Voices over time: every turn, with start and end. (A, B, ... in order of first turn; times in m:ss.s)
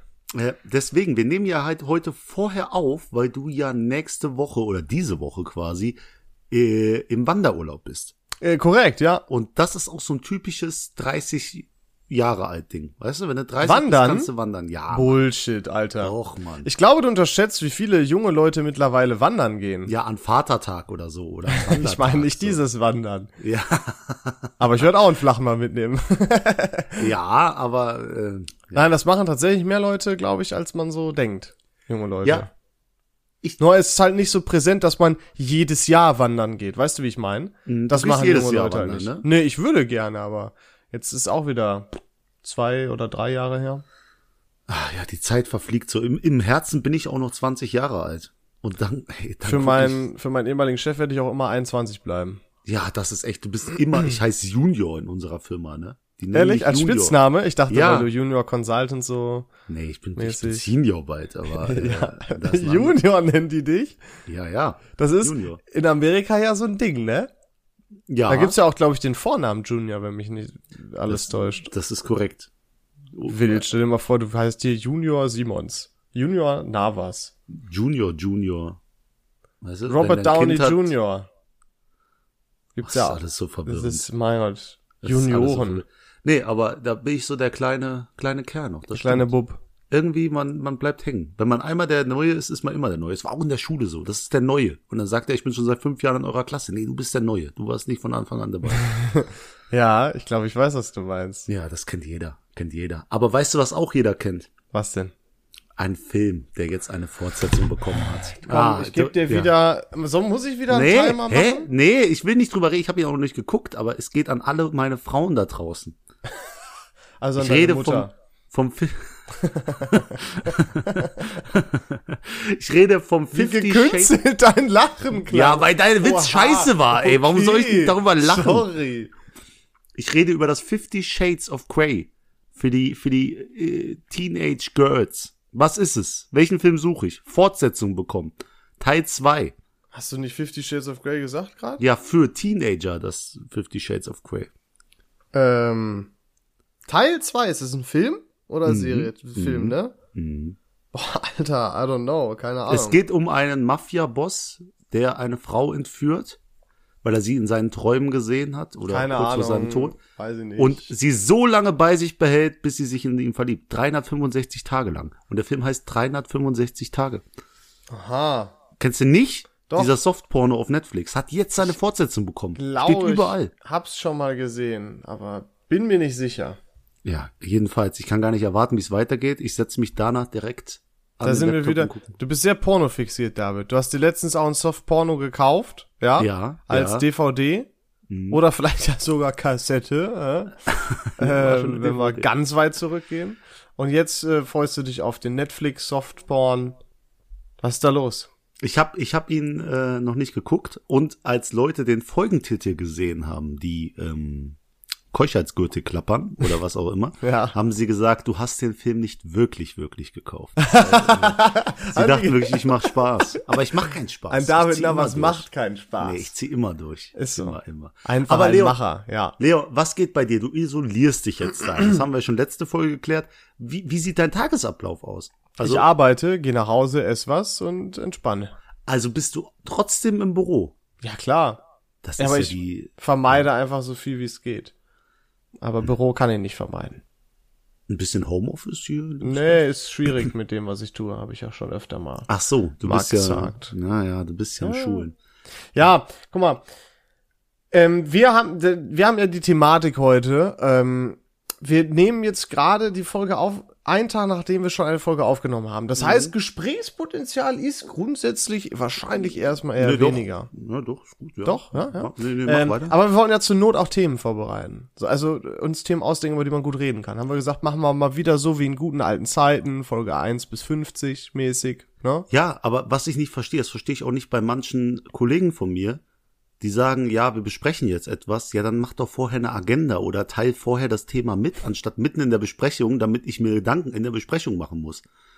0:00.4-0:06.0 A
0:06.5-0:08.1 A
0:08.4-0:09.2 B
0:09.3-0:15.2 A
0:13.6-0:14.3 B
0:14.9-0:19.9 B
0:16.0-0:16.7 A
0:19.9-0:22.6 A
0:21.5-0:23.3 B
0:23.4-0:24.5 A
0:24.6-0:27.1 B
0:27.0-0:28.8 A
0:28.7-0:32.5 B
0:33.6-0:43.8 B
0:37.7-0:39.3 A
0:44.7-0:50.1 A
0:49.4-0:52.4 B
0:52.6-0:57.2 A
0:56.3-0:59.5 B
0:57.7-0:58.1 A
0:59.7-1:03.0 A
1:00.2-1:00.7 B
1:01.5-1:04.0 B
1:04.3-1:05.6 A
1:05.0-1:07.3 B
1:08.1-1:08.6 A
1:08.3-1:11.7 B
1:11.1-1:12.5 A
1:13.1-1:13.6 A
1:13.3-1:17.3 B
1:17.5-1:18.8 A
1:19.6-1:20.9 A
1:19.9-1:21.3 B
1:22.8-1:25.8 B
1:22.8-1:24.0 A
1:25.0-1:29.3 A
1:28.9-1:29.6 B
1:29.9-1:38.8 A
1:38.9-1:41.5 B
1:41.5-1:44.5 A
1:44.7-1:45.1 B
1:45.8-1:49.5 A
1:48.4-1:51.7 B
1:50.7-1:56.0 A
1:57.2-1:58.1 B
1:57.4-1:59.1 A
1:59.4-2:01.2 B
1:59.8-2:04.2 A
2:03.3-2:09.1 B
2:05.3-2:08.7 A
2:10.0-2:19.6 A
2:19.9-2:21.8 B
2:21.8-2:24.5 A
2:25.3-2:26.1 B
2:26.9-2:30.0 B
2:28.7-2:30.6 A
2:30.9-2:33.0 B
2:32.7-2:36.4 A
2:37.0-2:40.0 A
2:38.9-2:40.9 B
2:40.6-2:47.2 A
2:47.9-2:48.5 B
2:48.8-2:53.5 A
2:49.7-2:50.0 B
2:52.6-2:56.6 B
2:57.0-3:02.2 A
3:01.2-3:07.7 B
3:06.2-3:07.0 A
3:08.1-3:08.4 A
3:08.3-3:10.6 B
3:10.9-3:12.3 A
3:11.2-3:16.8 B
3:17.6-3:18.3 B
3:18.6-3:24.6 A
3:25.1-3:35.5 A
3:27.2-3:27.6 B
3:30.6-3:33.4 B
3:34.3-3:36.3 B
3:36.0-3:38.8 A
3:37.2-3:39.4 B
3:39.4-3:45.9 A
3:45.6-3:48.5 B
3:48.9-3:50.8 A
3:51.0-3:51.6 B
3:52.0-3:53.4 A
3:52.2-3:54.7 B
3:55.6-3:57.0 B
3:57.9-3:59.6 A
3:59.2-4:02.3 B
4:02.3-4:05.2 A
4:02.8-4:03.7 B
4:04.6-4:05.1 B
4:05.7-4:06.6 B
4:07.7-4:20.5 B
4:16.0-4:16.3 A
4:19.8-4:23.0 A
4:21.4-4:32.3 B
4:32.3-4:36.0 A
4:36.6-4:45.0 A